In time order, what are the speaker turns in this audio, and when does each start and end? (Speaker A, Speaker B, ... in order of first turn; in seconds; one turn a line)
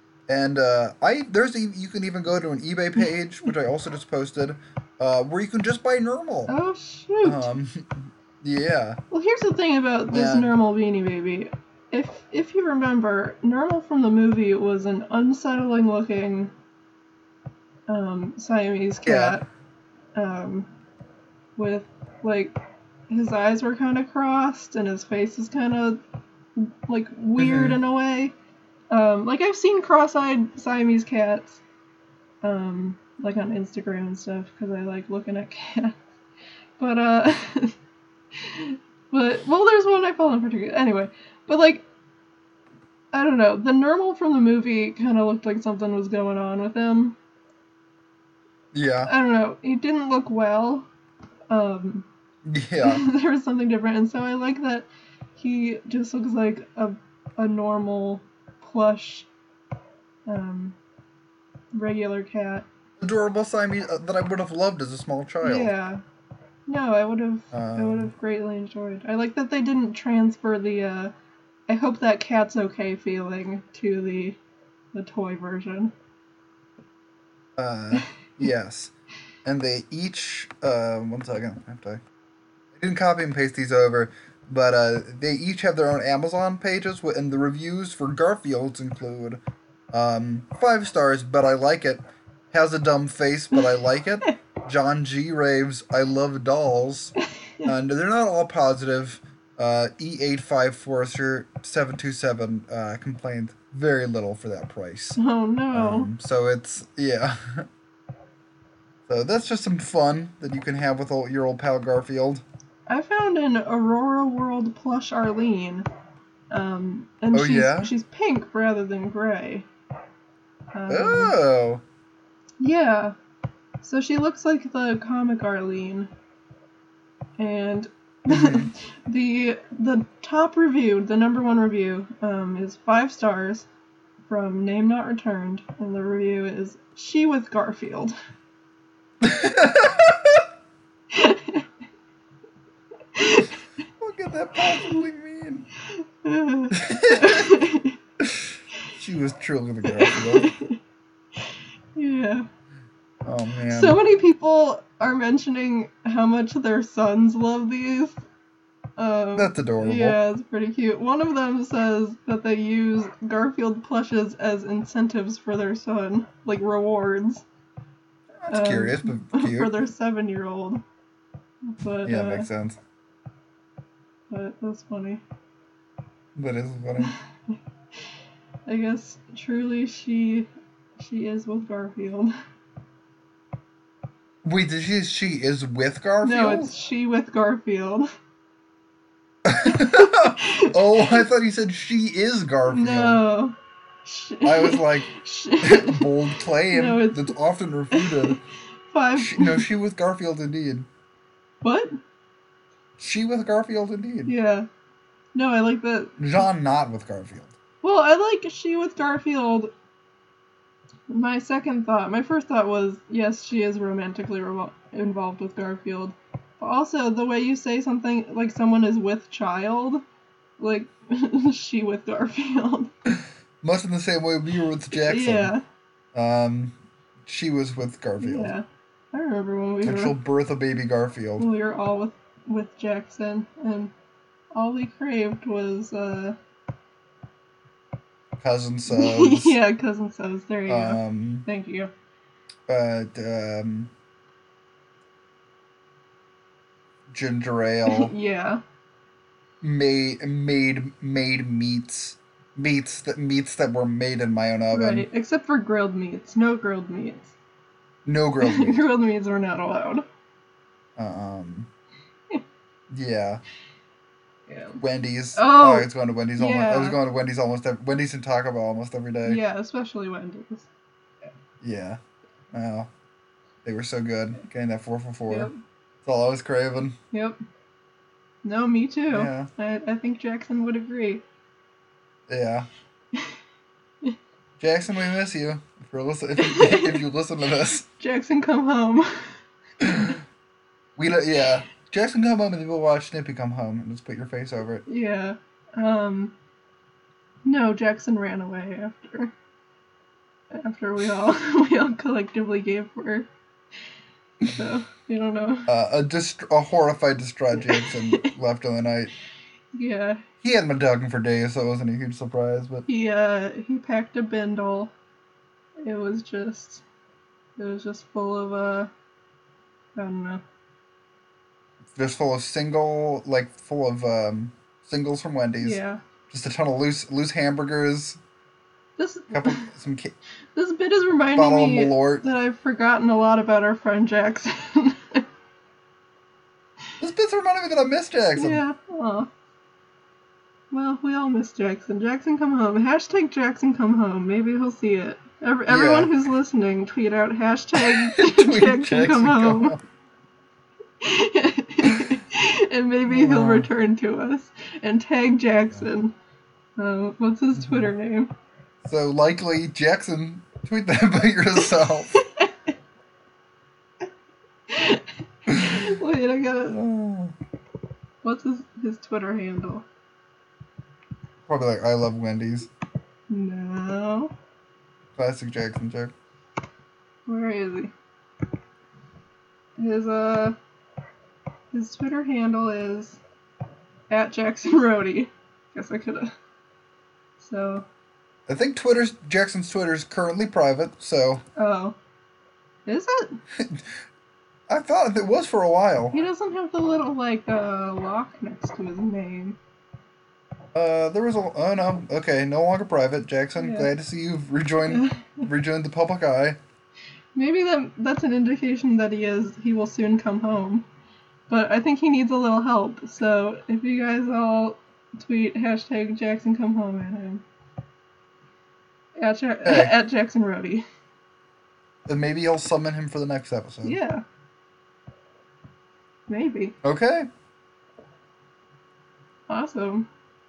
Speaker A: 0.3-6.5
Speaker B: 6.5-7.5
Speaker A: 7.2-9.0
Speaker B: 9.1-16.5
Speaker A: 10.1-10.6
Speaker B: 17.9-19.4
Speaker A: 19.1-19.4
Speaker B: 20.1-20.7
Speaker B: 21.6-22.6
Speaker B: 23.1-26.0
Speaker B: 26.6-28.3
Speaker A: 27.4-27.8
Speaker B: 28.9-31.6
Speaker B: 32.4-36.0
Speaker B: 36.8-37.8
Speaker B: 38.4-41.9
Speaker B: 43.1-47.2
Speaker A: 48.7-49.1
Speaker B: 49.0-50.9
Speaker B: 51.5-52.1
Speaker A: 52.4-53.0
Speaker B: 52.8-59.3
Speaker B: 60.3-60.8
Speaker B: 61.7-62.7
Speaker A: 63.0-65.7
Speaker B: 65.4-66.0
Speaker B: 66.7-71.1
Speaker A: 67.5-68.1
Speaker B: 71.7-74.4
Speaker B: 74.9-75.9
Speaker A: 77.6-78.9
Speaker A: 79.5-82.0
Speaker A: 82.7-89.4
Speaker A: 89.9-105.2
Speaker B: 105.2-106.1
Speaker A: 105.7-107.7
Speaker A: 109.1-112.4
Speaker B: 112.9-115.8
Speaker B: 116.5-119.7
Speaker A: 117.3-117.9
Speaker B: 120.7-121.3
Speaker A: 120.9-121.8
Speaker B: 122.6-123.2
Speaker B: 123.8-126.1
Speaker B: 127.4-133.7
Speaker A: 128.3-128.7
Speaker B: 134.3-138.2
Speaker A: 139.2-140.4
Speaker B: 141.1-141.7
Speaker B: 143.1-143.5
Speaker A: 144.0-145.7
Speaker B: 145.9-148.0
Speaker A: 146.7-147.5
Speaker A: 148.2-150.5
Speaker B: 149.8-150.8
Speaker B: 151.4-152.5
Speaker A: 153.2-154.0
Speaker B: 153.7-158.2
Speaker B: 159.0-167.4
Speaker A: 159.3-160.2
Speaker A: 168.4-169.7
Speaker B: 168.5-170.8
Speaker B: 171.6-172.5
Speaker A: 172.1-172.8
Speaker B: 174.3-175.2
Speaker A: 176.4-177.2
Speaker B: 178.7-182.3
Speaker A: 184.4-186.7
Speaker B: 186.2-188.1
Speaker A: 189.4-193.2
Speaker B: 189.6-191.2
Speaker B: 192.7-197.4
Speaker A: 194.4-195.1
Speaker A: 195.6-198.4
Speaker B: 197.9-199.7
Speaker A: 199.2-200.9
Speaker B: 201.6-201.9
Speaker A: 203.0-204.3
Speaker B: 204.3-204.7
Speaker B: 205.3-206.3
Speaker A: 206.2-207.6
Speaker B: 207.8-209.7
Speaker B: 211.1-220.0
Speaker B: 220.6-222.9
Speaker A: 223.1-225.5
Speaker B: 224.9-225.6
Speaker A: 226.1-226.7
Speaker A: 227.3-228.5
Speaker B: 228.2-230.2
Speaker A: 229.8-231.5
Speaker B: 231.4-233.9
Speaker B: 234.5-236.4
Speaker A: 238.4-239.6
Speaker B: 238.9-241.9
Speaker A: 240.7-241.5
Speaker A: 242.7-243.9
Speaker A: 247.1-248.1
Speaker B: 247.9-248.6
Speaker A: 249.6-255.1
Speaker B: 254.7-257.3
Speaker A: 258.1-258.9
Speaker B: 258.4-260.1
Speaker A: 261.0-261.7
Speaker A: 262.9-263.4
Speaker B: 264.5-264.8
Speaker A: 264.8-269.4
Speaker B: 265.4-267.0
Speaker B: 269.2-270.7
Speaker A: 271.6-272.0
Speaker A: 272.5-272.9
Speaker A: 273.6-275.5
Speaker B: 275.3-275.6
Speaker A: 276.0-277.0
Speaker B: 277.1-277.4
Speaker B: 278.4-281.2
Speaker A: 279.1-279.5
Speaker A: 282.3-282.7
Speaker A: 284.6-287.9
Speaker B: 286.4-287.0
Speaker B: 288.0-289.3
Speaker A: 289.8-290.2
Speaker A: 291.0-294.8
Speaker B: 294.9-296.3
Speaker B: 297.5-299.3
Speaker B: 300.5-303.3
Speaker B: 304.4-305.7
Speaker A: 305.7-309.1
Speaker B: 307.7-308.3
Speaker B: 309.7-310.2
Speaker A: 310.4-312.9
Speaker B: 312.9-314.9
Speaker B: 315.8-316.8
Speaker B: 317.6-318.9
Speaker B: 320.0-320.4
Speaker A: 321.9-328.2
Speaker B: 325.6-326.0
Speaker B: 329.0-329.7
Speaker A: 329.3-330.1
Speaker B: 330.6-335.2
Speaker A: 331.3-332.2
Speaker A: 337.0-338.6
Speaker B: 338.4-339.3
Speaker B: 340.7-349.8
Speaker A: 345.7-346.1
Speaker A: 347.7-349.8
Speaker B: 351.0-356.1
Speaker A: 353.1-353.7
Speaker B: 356.8-358.3
Speaker A: 357.6-357.9
Speaker A: 358.8-362.2
Speaker B: 362.1-362.5
Speaker B: 364.7-366.8
Speaker A: 365.5-365.9
Speaker A: 366.7-367.4
Speaker B: 368.2-369.9
Speaker A: 371.5-372.7
Speaker B: 373.3-374.3
Speaker A: 375.2-376.1
Speaker B: 377.3-377.9
Speaker B: 379.8-380.6
Speaker B: 381.7-383.2
Speaker B: 384.1-386.3
Speaker B: 387.4-387.9
Speaker A: 388.5-391.4
Speaker B: 391.6-392.0
Speaker B: 392.9-393.4
Speaker A: 393.6-393.9
Speaker A: 394.7-396.1
Speaker B: 396.1-399.6
Speaker A: 400.7-406.6
Speaker B: 403.6-403.9
Speaker B: 404.9-405.4
Speaker B: 407.4-410.9
Speaker B: 411.5-417.4
Speaker B: 419.2-420.8
Speaker A: 419.6-419.9
Speaker A: 422.1-424.0
Speaker B: 423.8-424.2
Speaker B: 426.3-426.8
Speaker A: 426.8-427.3
Speaker B: 429.5-430.1